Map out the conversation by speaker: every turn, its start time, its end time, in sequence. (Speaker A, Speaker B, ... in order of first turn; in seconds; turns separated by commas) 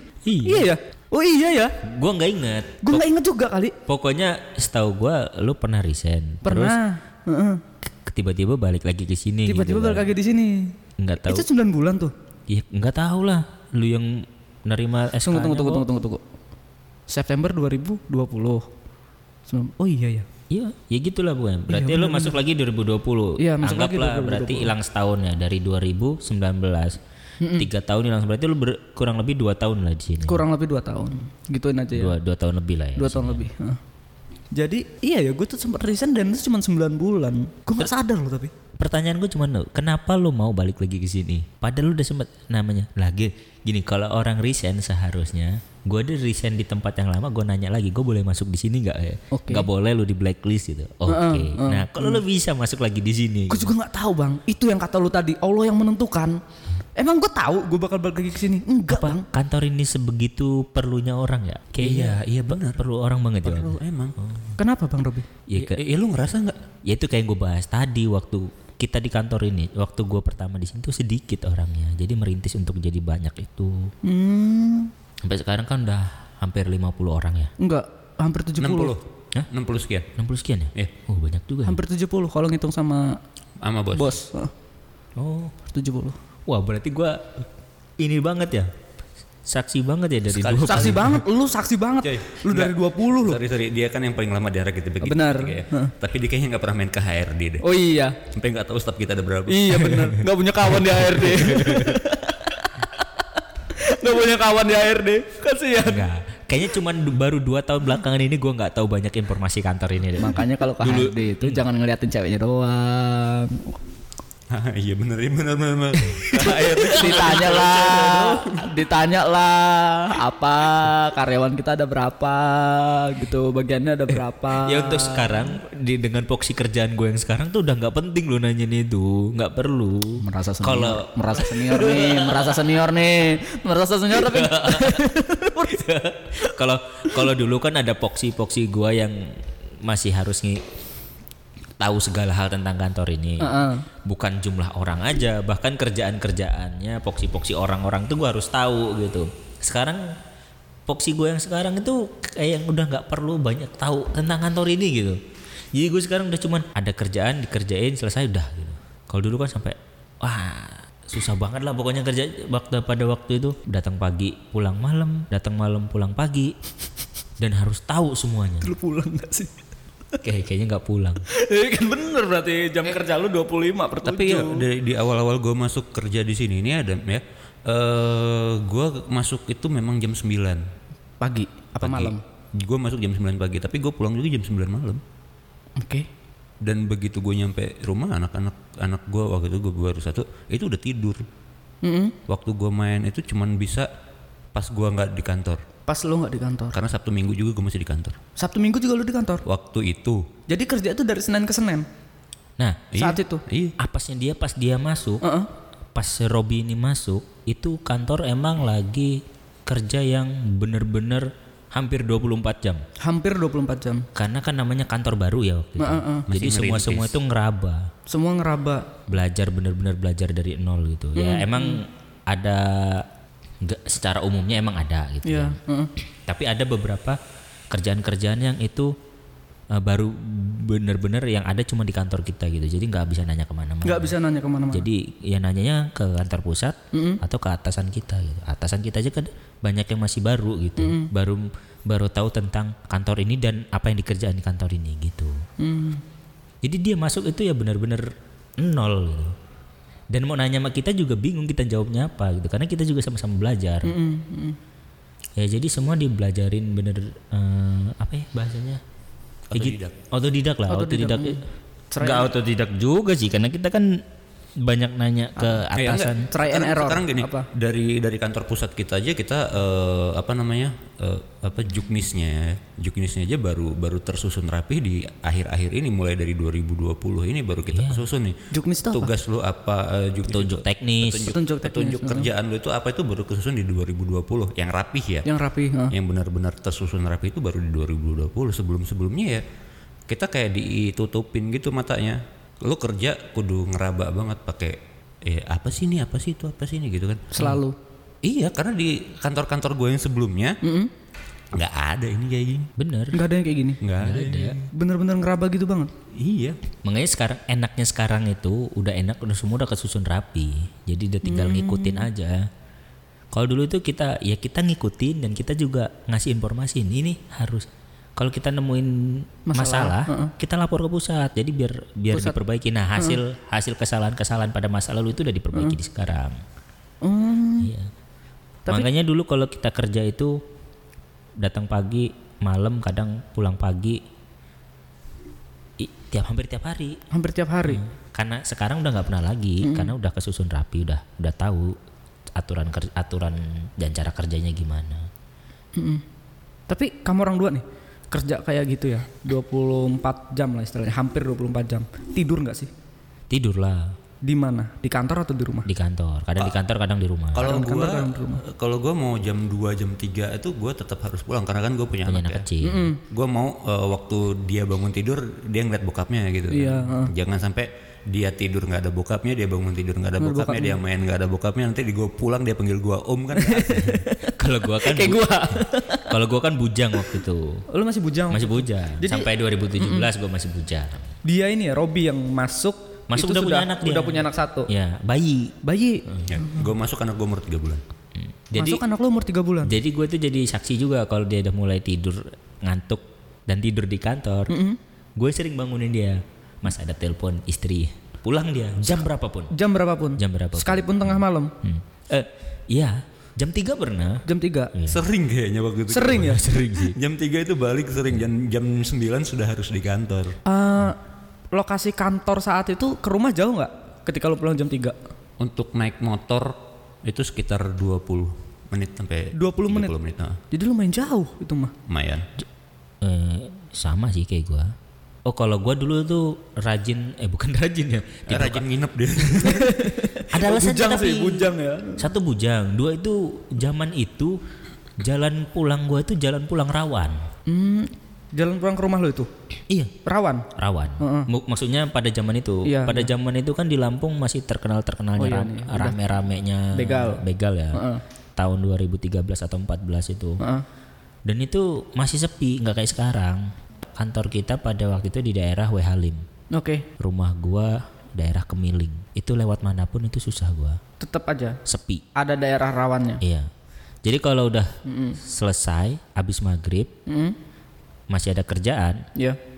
Speaker A: 0.2-0.7, Speaker B: 0.4-1.8, Speaker A: 1.8-3.1, Speaker B: 2.8-3.8, Speaker A: 3.9-6.8, Speaker B: 6.4-7.6, Speaker A: 8.0-10.1, Speaker B: 9.5-12.1, Speaker A: 11.0-11.5, Speaker A: 12.5-15.8, Speaker B: 15.2-16.2, Speaker B: 17.1-18.7, Speaker B: 19.5-20.2, Speaker A: 20.5-27.0, Speaker B: 21.7-22.4, Speaker B: 23.4-24.7, Speaker B: 27.4-27.7, Speaker A: 27.6-30.4, Speaker B: 30.2-32.1, Speaker A: 31.9-33.5, Speaker B: 33.0-33.8, Speaker B: 34.5-38.5, Speaker A: 38.8-53.7, Speaker B: 49.3-49.7, Speaker B: 51.1-52.2, Speaker B: 53.5-56.4, Speaker B: 57.0-59.2, Speaker A: 58.9-64.5, Speaker C: 61.8-62.8, Speaker C: 63.4-64.2, Speaker B: 64.6-65.3, Speaker A: 65.5-65.8, Speaker C: 65.5-66.6, Speaker A: 66.9-73.9, Speaker B: 74.0-74.9, Speaker A: 75.2-77.5, Speaker B: 77.6-79.0, Speaker C: 78.6-80.1, Speaker A: 80.2-81.8, Speaker B: 81.7-83.2, Speaker C: 83.6-84.2, Speaker B: 84.0-84.5, Speaker A: 85.2-85.5, Speaker B: 85.7-86.2, Speaker A: 86.5-87.5, Speaker A: 88.0-88.7, Speaker A: 89.5-91.2, Speaker C: 90.3-91.1, Speaker B: 90.7-93.4, Speaker C: 92.0-97.7, Speaker B: 95.0-95.9, Speaker B: 97.6-98.2, Speaker C: 98.3-100.0, Speaker B: 99.5-106.1, Speaker A: 101.7-102.0, Speaker A: 105.8-111.6, Speaker B: 110.2-113.8, Speaker C: 114.5-118.7, Speaker A: 116.2-118.3, Speaker B: 116.3-125.5, Speaker A: 124.6-132.6, Speaker B: 130.2-135.8, Speaker A: 134.1-140.7, Speaker A: 141.8-150.1, Speaker B: 143.4-143.9, Speaker A: 150.9-155.2, Speaker A: 155.7-166.5, Speaker A: 167.4-168.7, Speaker B: 168.6-169.5, Speaker A: 170.2-171.2, Speaker B: 171.3-174.7, Speaker C: 174.0-180.6, Speaker B: 181.2-182.2, Speaker C: 181.8-185.0, Speaker B: 185.8-186.1, Speaker C: 186.6-191.2, Speaker B: 191.8-192.2, Speaker C: 192.3-193.9, Speaker C: 194.6-195.6, Speaker B: 195.9-196.8, Speaker C: 196.7-198.2, Speaker B: 198.4-199.4, Speaker C: 199.5-200.2, Speaker B: 200.5-201.8, Speaker A: 202.6-202.9, Speaker C: 202.9-203.8, Speaker B: 203.0-203.4, Speaker A: 203.8-205.2, Speaker B: 205.2-205.5, Speaker A: 205.9-212.8, Speaker B: 213.0-214.1, Speaker A: 214.2-217.9, Speaker B: 215.8-216.3, Speaker C: 216.3-217.1, Speaker B: 218.1-219.0, Speaker A: 219.1-223.1, Speaker B: 221.2-221.8, Speaker A: 223.6-225.6, Speaker B: 225.2-225.9, Speaker A: 226.3-227.2, Speaker A: 227.7-228.9, Speaker A: 229.7-234.1, Speaker B: 233.8-234.9, Speaker A: 234.7-245.4, Speaker B: 236.9-237.2, Speaker B: 240.8-241.1, Speaker B: 245.6-246.0, Speaker A: 246.6-249.3, Speaker A: 250.1-253.9, Speaker B: 253.8-254.6, Speaker A: 255.4-258.8, Speaker C: 259.5-259.9, Speaker A: 259.5-261.4, Speaker B: 260.7-262.3, Speaker A: 262.0-264.0, Speaker A: 264.6-266.3, Speaker B: 265.4-267.5, Speaker C: 265.8-285.3, Speaker A: 277.7-278.1, Speaker B: 278.5-279.1, Speaker A: 280.3-281.3, Speaker B: 281.3-282.3, Speaker B: 285.2-285.9, Speaker C: 285.9-289.4, Speaker C: 290.1-297.3, Speaker B: 297.3-297.8, Speaker C: 298.2-300.6, Speaker B: 300.6-300.9, Speaker C: 301.5-302.7, Speaker A: 302.8-303.2, Speaker B: 303.1-303.8, Speaker C: 303.8-304.7, Speaker A: 304.0-304.6, Speaker B: 304.7-305.9, Speaker C: 306.1-306.6, Speaker A: 306.8-312.5, Speaker B: 311.2-312.1, Speaker A: 313.3-326.4, Speaker B: 319.5-320.3, Speaker B: 322.1-322.4, Speaker B: 327.0-327.7, Speaker A: 327.6-327.9, Speaker A: 328.7-330.4, Speaker A: 331.4-334.0, Speaker A: 335.8-337.0, Speaker B: 337.1-337.8, Speaker A: 337.7-341.8, Speaker B: 339.6-339.9, Speaker A: 342.4-345.1, Speaker B: 345.8-346.0, Speaker B: 346.7-352.7, Speaker A: 353.3-353.9, Speaker B: 354.2-355.7, Speaker A: 355.7-357.5, Speaker C: 357.3-362.5, Speaker B: 357.4-358.4, Speaker A: 362.1-362.9, Speaker B: 362.6-363.0, Speaker C: 363.1-374.0, Speaker B: 366.5-367.1, Speaker B: 370.2-370.8, Speaker B: 373.4-376.1, Speaker A: 374.4-377.6, Speaker B: 377.7-380.1, Speaker A: 378.3-381.1, Speaker B: 381.2-384.7, Speaker A: 383.1-386.3, Speaker B: 385.6-386.7, Speaker C: 386.3-387.8, Speaker A: 388.2-388.8, Speaker B: 388.6-389.8, Speaker A: 389.6-394.5, Speaker B: 394.5-394.8, Speaker A: 395.2-399.5, Speaker B: 399.5-401.5, Speaker A: 400.2-405.1, Speaker B: 404.2-404.7, Speaker C: 404.9-410.4, Speaker B: 405.9-406.4, Speaker A: 406.1-407.0, Speaker B: 410.4-411.0, Speaker B: 411.5-415.0, Speaker C: 415.4-420.4, Speaker B: 419.4-419.9, Speaker B: 420.5-421.7, Speaker C: 421.9-422.3, Speaker A: 423.0-424.7, Speaker A: 425.3-428.6, Speaker C: 428.3-429.7, Speaker A: 429.3-429.6, Speaker B: 429.4-432.1, Speaker A: 430.3-434.4, Speaker A: 435.0-437.3, Speaker B: 437.5-439.3, Speaker B: 440.0-440.5, Speaker A: 440.6-447.8, Speaker B: 441.0-441.3, Speaker B: 442.6-443.1, Speaker B: 445.2-446.0, Speaker B: 446.7-448.0, Speaker A: 448.4-450.4, Speaker B: 450.4-450.6, Speaker A: 451.3-456.2, Speaker B: 456.5-456.9, Speaker A: 457.0-460.8, Speaker B: 461.0-461.6, Speaker A: 461.7-462.0, Speaker B: 462.1-463.2, Speaker A: 463.2-463.5, Speaker A: 464.0-466.9, Speaker B: 464.9-465.2, Speaker B: 467.1-467.4, Speaker A: 468.1-469.1